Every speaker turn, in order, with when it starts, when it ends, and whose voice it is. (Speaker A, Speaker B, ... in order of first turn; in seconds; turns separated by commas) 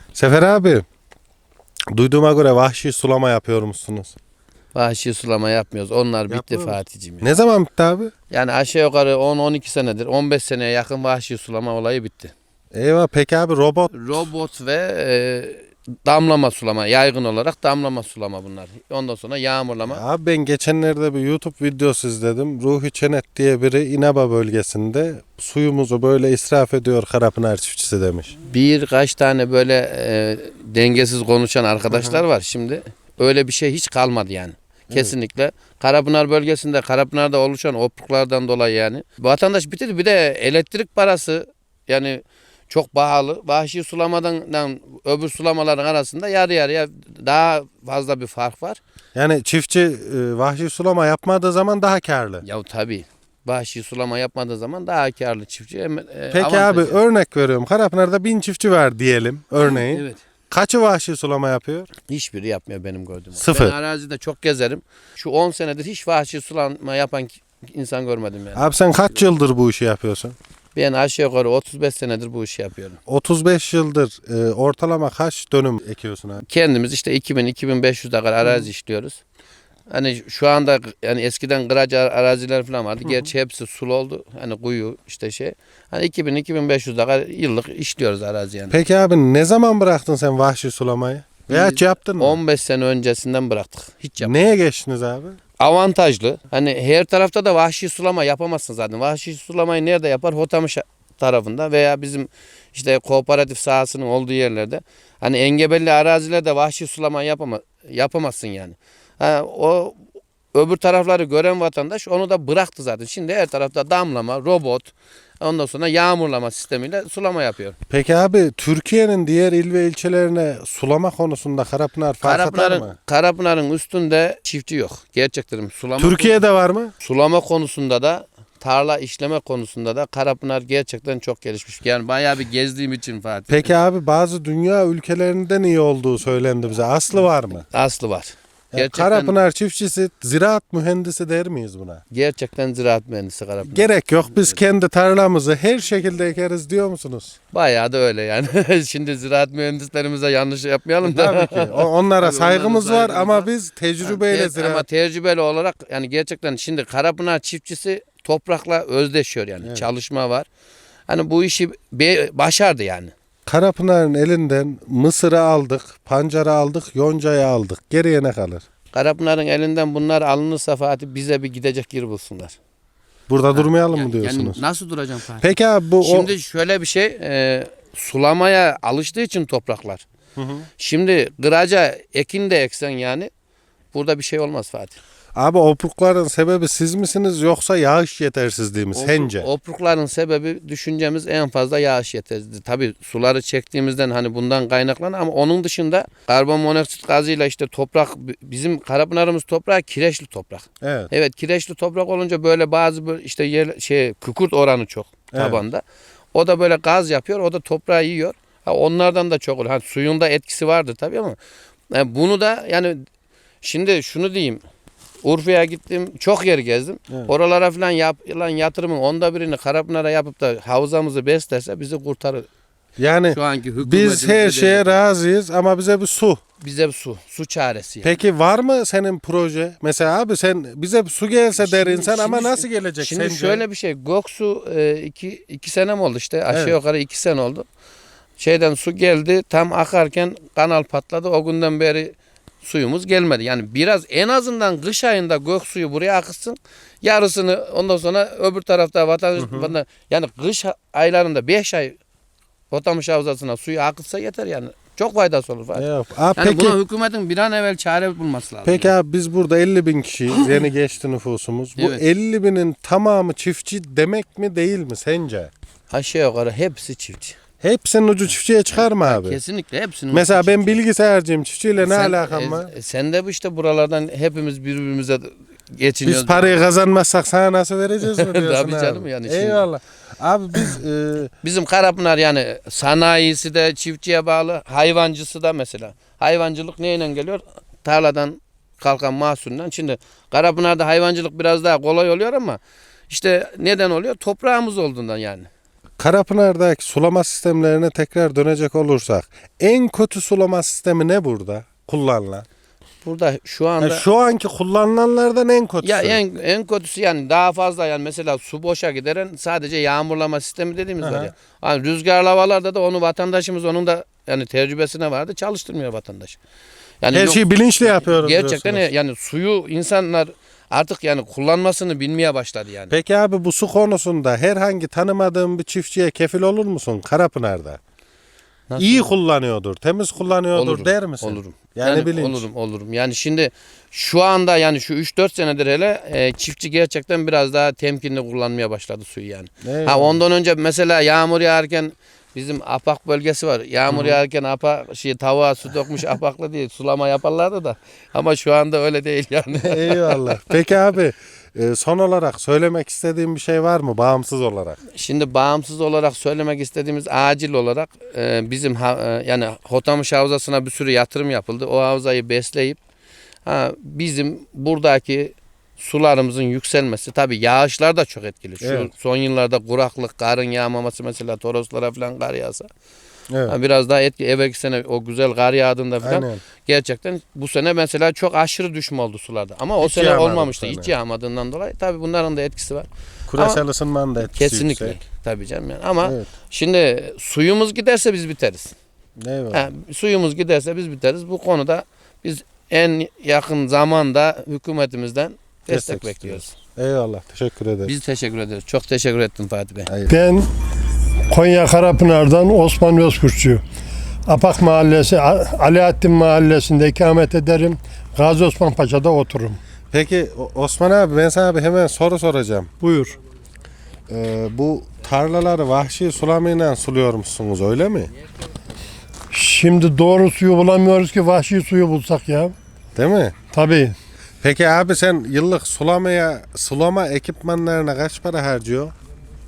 Speaker A: 0.1-0.8, Speaker A: 1.9-4.2, Speaker B: 4.7-7.3, Speaker A: 6.3-8.1, Speaker B: 8.3-12.3, Speaker A: 12.7-14.3, Speaker B: 13.9-20.0, Speaker A: 19.9-28.3, Speaker B: 28.5-48.8, Speaker A: 31.9-32.2, Speaker A: 49.1-52.4, Speaker B: 52.4-57.0, Speaker A: 56.3-61.9, Speaker B: 59.6-60.2, Speaker B: 62.1-68.7, Speaker A: 63.4-63.8, Speaker A: 68.5-70.4, Speaker B: 70.8-73.0, Speaker A: 73.1-76.4, Speaker B: 76.5-79.2, Speaker B: 79.9-88.8, Speaker A: 88.7-92.4, Speaker B: 91.5-94.4, Speaker A: 94.2-95.4, Speaker B: 95.6-110.0, Speaker B: 110.5-117.8, Speaker A: 117.9-123.0, Speaker B: 122.2-126.4, Speaker A: 126.0-126.9, Speaker B: 127.0-133.8, Speaker A: 133.5-137.7, Speaker B: 137.7-139.4, Speaker A: 138.7-142.0, Speaker B: 142.1-144.6, Speaker A: 143.6-147.4, Speaker B: 147.5-153.5, Speaker A: 151.0-154.8, Speaker B: 154.0-160.5, Speaker A: 159.6-159.9, Speaker B: 161.1-163.1, Speaker A: 163.5-168.6, Speaker B: 168.9-172.6, Speaker A: 173.3-174.6, Speaker B: 173.5-180.1, Speaker A: 175.4-176.3, Speaker A: 180.4-180.7, Speaker B: 180.8-183.3, Speaker B: 183.9-185.0, Speaker A: 185.3-189.5, Speaker B: 188.9-205.8, Speaker A: 200.8-201.1, Speaker A: 205.3-205.6, Speaker B: 206.3-211.4, Speaker B: 211.9-213.1, Speaker B: 213.6-214.6, Speaker B: 215.2-222.5, Speaker A: 223.0-226.4, Speaker B: 223.3-225.0, Speaker B: 226.6-228.2, Speaker A: 228.0-233.6, Speaker B: 231.6-237.7, Speaker A: 236.5-236.8, Speaker B: 238.4-252.0, Speaker A: 249.4-249.7, Speaker B: 252.7-258.9, Speaker A: 255.8-256.8, Speaker A: 258.6-265.5, Speaker B: 261.8-262.0, Speaker B: 265.9-267.4, Speaker A: 267.6-269.4, Speaker B: 269.0-270.8, Speaker A: 270.1-272.7, Speaker B: 271.8-276.7, Speaker A: 276.0-281.3, Speaker B: 278.1-279.6, Speaker B: 281.4-292.6, Speaker B: 293.1-295.5, Speaker A: 296.0-302.5, Speaker B: 303.0-304.0, Speaker A: 303.8-306.2, Speaker B: 305.8-316.4, Speaker A: 311.0-311.3, Speaker B: 317.0-322.9, Speaker A: 317.1-318.9, Speaker A: 322.9-327.8, Speaker B: 328.7-329.1, Speaker A: 328.8-332.4, Speaker B: 330.5-350.2, Speaker A: 339.6-340.2, Speaker A: 343.9-344.2, Speaker A: 349.6-354.8, Speaker B: 354.9-362.8, Speaker B: 363.5-372.7, Speaker A: 368.6-368.9, Speaker B: 373.5-383.6, Speaker A: 376.0-376.4, Speaker A: 379.8-380.9, Speaker A: 383.3-385.0, Speaker B: 384.3-388.8, Speaker A: 389.2-389.6, Speaker B: 389.5-396.5, Speaker A: 395.7-397.9, Speaker B: 397.9-399.9, Speaker A: 399.9-400.1, Speaker C: 400.1-400.5, Speaker C: 401.3-403.6, Speaker C: 404.3-409.6, Speaker A: 409.9-412.7, Speaker C: 412.8-413.2, Speaker A: 414.1-418.1, Speaker C: 419.3-422.6, Speaker A: 423.0-423.4, Speaker C: 423.5-424.0, Speaker A: 424.4-428.9